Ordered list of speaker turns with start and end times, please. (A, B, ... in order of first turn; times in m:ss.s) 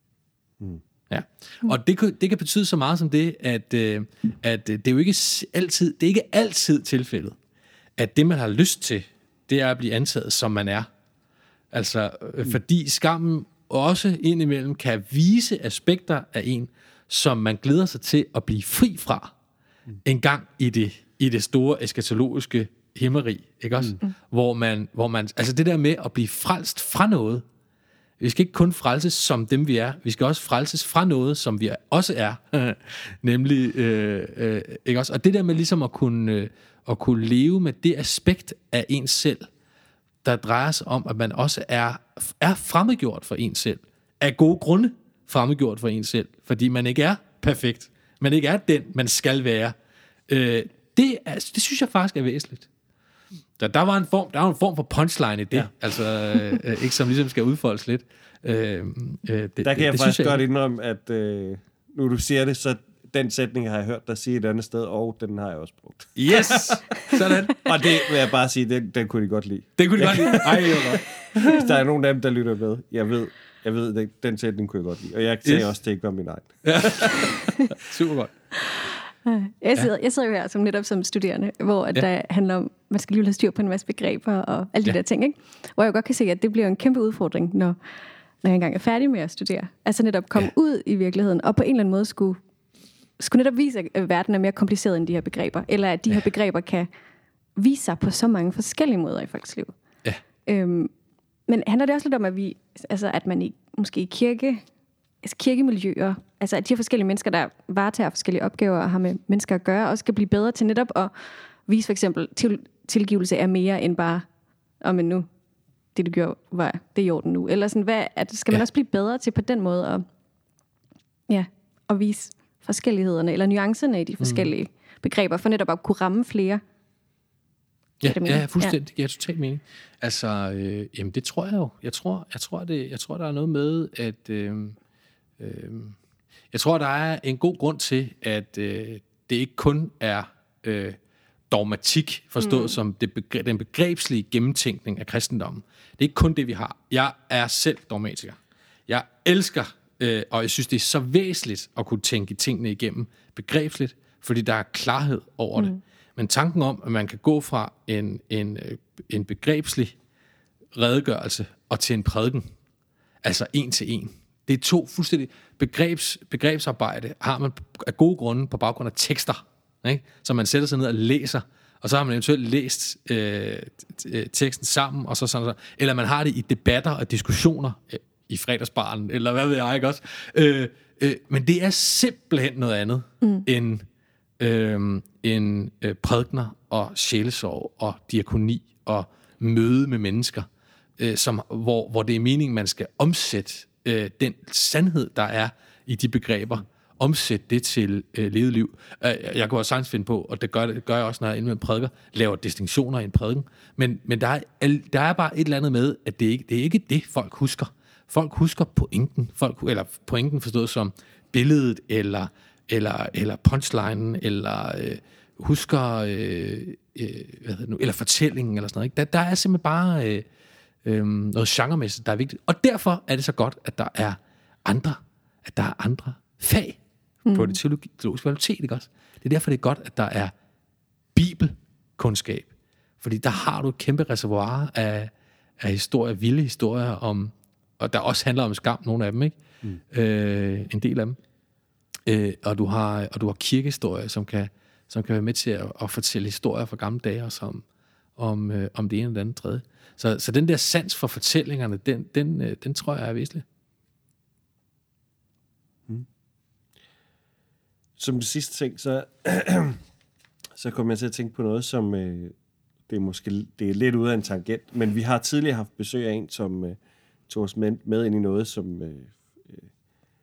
0:01.1-0:07.4 A
0:08.0-0:10.9 A
0:11.7-0:19.3 A
0:20.0-0:27.4 A
0:28.2-0:39.5 A
0:40.2-0:49.8 A
0:50.3-0:52.7 A
0:53.6-1:00.4 A
0:59.6-1:17.3 B
1:06.2-1:07.7 A
1:09.8-1:11.4 A
1:16.6-1:18.3 A
1:19.2-1:27.8 C
1:28.4-1:32.4 C
1:33.2-1:36.9 C
1:37.6-1:39.7 C
1:40.5-1:40.9 C
1:41.5-1:44.6 C
1:45.2-1:51.1 C
1:51.7-1:54.3 C
1:54.8-1:55.3 C
1:56.0-2:00.1 C
2:01.3-2:06.6 C
2:04.2-2:04.5 A
2:08.0-2:14.8 A
2:08.0-2:08.8 C
2:15.4-2:16.0 A
2:16.5-2:21.0 A
2:21.5-2:40.0 A
2:22.4-2:22.8 C
2:40.8-2:42.5 A
2:43.2-3:03.8 A
3:04.4-3:40.2 A
3:40.8-3:46.8 A
3:47.3-3:47.6 C
3:47.3-3:50.3 A
3:51.2-3:59.4 A
3:59.9-4:01.2 A
4:02.1-4:07.6 A
4:08.2-4:13.4 A
4:18.0-4:19.8 B
4:20.6-4:22.4 B
4:22.9-4:29.7 B